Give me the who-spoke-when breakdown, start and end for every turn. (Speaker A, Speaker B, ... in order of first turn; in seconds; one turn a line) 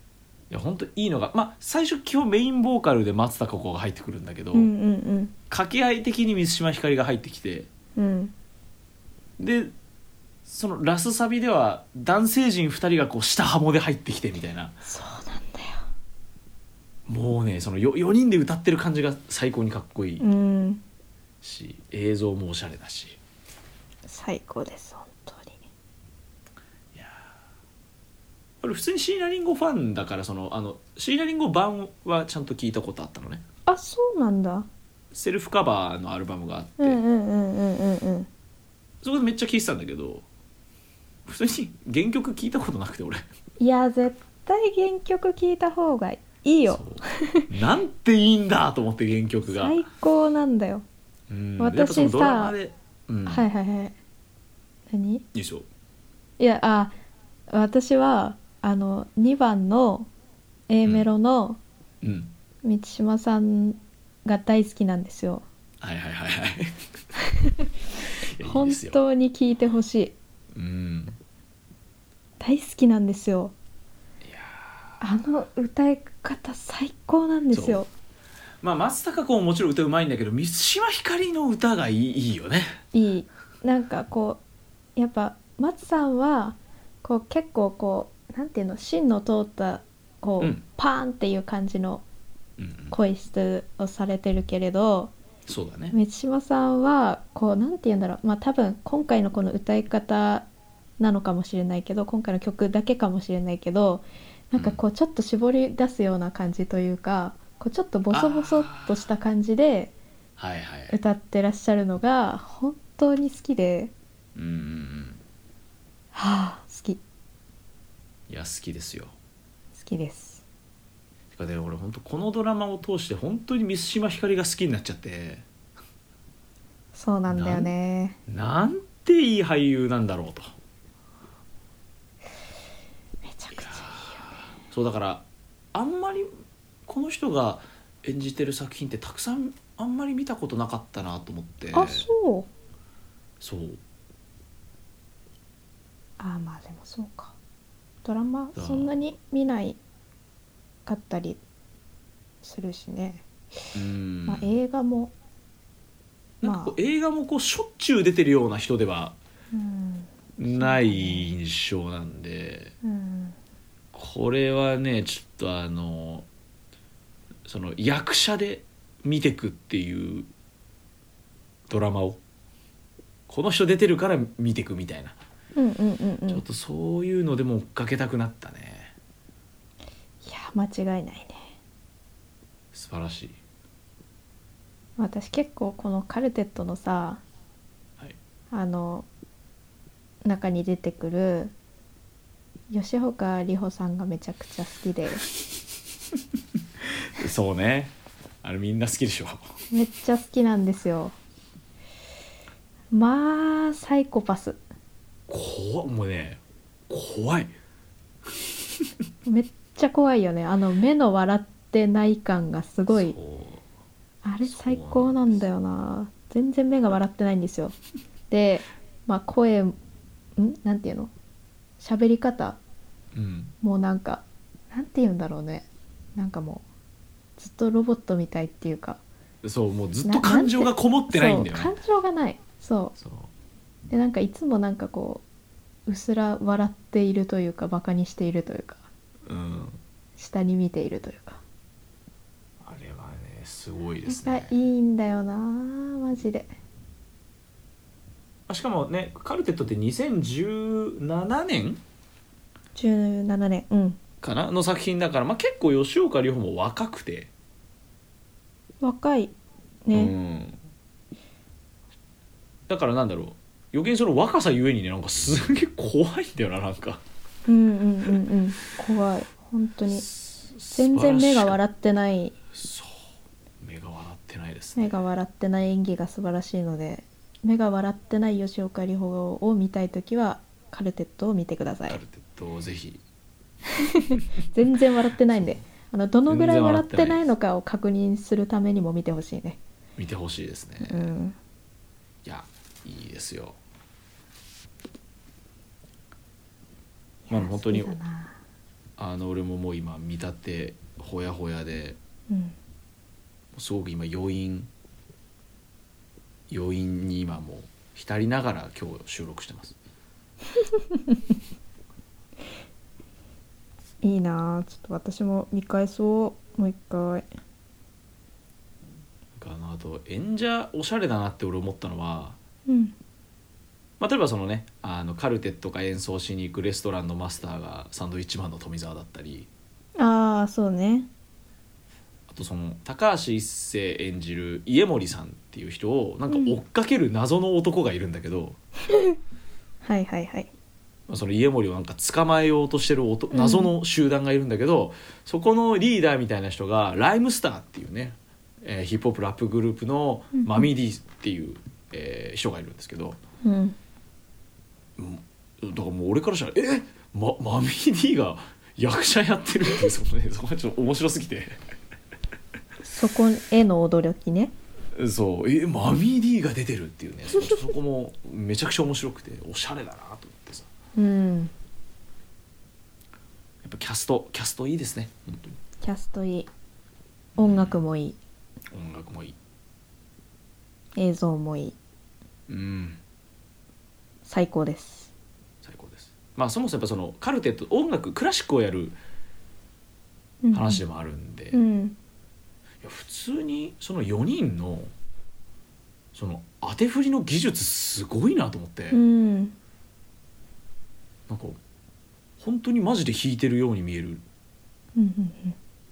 Speaker A: 0.5-4.7
Speaker B: 4.5-5.3
Speaker A: 5.5-7.7
Speaker B: 8.0-8.3
Speaker A: 9.4-9.7
Speaker A: 10.4-14.8
Speaker B: 14.8-15.8
Speaker A: 17.1-20.2
Speaker B: 20.2-20.8
Speaker A: 21.4-23.2
Speaker B: 24.1-25.6
Speaker A: 26.9-27.3
Speaker A: 28.6-33.4
Speaker B: 33.6-34.7
Speaker A: 35.1-37.0
Speaker B: 36.8-38.3
Speaker A: 39.0-40.2
Speaker A: 41.2-43.2
Speaker B: 43.6-47.5
Speaker A: 46.7-49.8
Speaker B: 49.5-50.8
Speaker A: 51.3-53.4
Speaker B: 51.6-52.5
Speaker B: 53.2-53.9
Speaker B: 54.9-55.2
Speaker A: 55.3-55.6
Speaker B: 56.4-56.9
Speaker B: 57.5-60.1
Speaker B: 60.7-61.6
Speaker A: 62.0-62.3
Speaker B: 62.6-65.4
Speaker A: 65.8-66.8
Speaker B: 67.4-67.7
Speaker A: 68.3-69.0
Speaker B: 68.4-70.2
Speaker A: 70.5-71.2
Speaker B: 72.4-73.5
Speaker A: 74.2-75.0
Speaker B: 75.0-77.9
Speaker A: 77.5-77.8
Speaker A: 78.6-82.8
Speaker B: 82.9-84.4
Speaker B: 85.0-92.0
Speaker A: 92.6-92.9
Speaker B: 92.9-95.1
Speaker A: 95.5-96.0
Speaker B: 95.9-100.5
Speaker B: 101.0-109.9
Speaker A: 104.5-104.8
Speaker A: 108.1-109.1
Speaker A: 110.4-111.0
Speaker B: 110.9-113.9
Speaker A: 114.3-115.2
Speaker B: 116.1-117.0
Speaker A: 118.3-119.1
Speaker B: 119.8-120.4
Speaker A: 121.3-125.4
Speaker B: 126.9-128.2
Speaker A: 127.3-127.7
Speaker A: 128.3-130.5
Speaker B: 133.2-134.4
Speaker A: 133.6-136.3
Speaker A: 136.8-142.1
Speaker B: 141.7-142.5
Speaker A: 143.4-143.8
Speaker B: 146.2-147.3
Speaker B: 148.0-149.8
Speaker A: 148.6-148.9
Speaker B: 150.8-151.4
Speaker B: 152.4-153.2
Speaker A: 153.7-154.5
Speaker B: 154.3-155.1
Speaker A: 156.4-159.2
Speaker B: 156.4-156.7
Speaker B: 159.5-161.3
Speaker A: 160.4-162.7
Speaker B: 162.8-163.3
Speaker A: 163.9-166.3
Speaker A: 167.4-170.3
Speaker A: 171.7-172.2
Speaker A: 173.3-175.2
Speaker B: 175.6-176.4
Speaker A: 176.3-178.9
Speaker B: 180.2-181.5
Speaker A: 182.7-183.4
Speaker B: 185.0-187.2
Speaker B: 188.5-189.1
Speaker B: 190.2-191.5
Speaker B: 192.7-195.2
Speaker A: 196.8-199.5
Speaker B: 199.7-201.1
Speaker B: 202.9-204.6
Speaker A: 205.3-207.5
Speaker B: 209.2-213.1
Speaker A: 212.9-213.6
Speaker B: 214.2-217.8
Speaker A: 214.4-215.4
Speaker B: 218.3-219.7
Speaker B: 220.4-221.1
Speaker B: 221.8-222.6
Speaker A: 223.1-223.5
Speaker B: 223.6-226.6
Speaker B: 227.4-229.0
Speaker A: 229.4-231.8
Speaker B: 230.0-232.9
Speaker A: 233.0-233.3
Speaker B: 233.9-235.2
Speaker B: 235.9-238.8
Speaker A: 239.2-239.8
Speaker B: 240.2-241.4
Speaker A: 242.6-244.5
Speaker B: 244.1-246.5
Speaker A: 248.5-251.8
Speaker B: 252.7-254.0
Speaker A: 254.2-257.3
Speaker B: 258.8-259.3
Speaker B: 259.8-260.1
Speaker A: 259.9-260.6
Speaker A: 262.7-267.0
Speaker B: 267.4-270.1
Speaker A: 269.9-271.6
Speaker B: 270.7-272.4
Speaker A: 272.5-273.1
Speaker A: 273.6-275.0
Speaker B: 274.8-282.0
Speaker A: 281.9-283.0
Speaker B: 283.7-289.6
Speaker A: 286.3-287.2
Speaker A: 290.0-291.0
Speaker B: 290.8-291.4
Speaker A: 292.2-293.6
Speaker B: 297.3-298.4
Speaker A: 297.3-297.9
Speaker A: 299.0-302.0
Speaker B: 302.3-302.5
Speaker A: 303.5-304.7
Speaker A: 306.5-309.8
Speaker B: 310.6-311.2
Speaker B: 314.0-317.2
Speaker A: 319.4-322.4
Speaker B: 322.7-322.9
Speaker A: 324.0-329.5
Speaker B: 330.0-331.1
Speaker A: 332.3-338.6
Speaker B: 336.3-336.6
Speaker B: 338.9-339.1
Speaker B: 339.8-340.5
Speaker A: 341.1-353.2
Speaker B: 343.3-343.7
Speaker B: 350.3-350.7
Speaker B: 353.4-353.8
Speaker A: 355.0-361.6
Speaker B: 362.8-364.5
Speaker A: 364.9-370.7
Speaker B: 370.9-371.5
Speaker A: 373.6-375.6
Speaker B: 375.8-376.5
Speaker A: 377.4-377.8
Speaker B: 377.4-378.2
Speaker A: 378.7-379.4
Speaker B: 380.9-381.8
Speaker A: 382.5-383.0
Speaker B: 384.2-385.1
Speaker A: 385.6-389.0
Speaker B: 390.4-390.8
Speaker A: 390.5-391.6
Speaker B: 391.5-391.9
Speaker A: 392.8-394.9
Speaker A: 396.1-399.0
Speaker B: 398.9-399.5
Speaker A: 401.3-401.6
Speaker A: 402.4-404.2
Speaker B: 404.9-405.6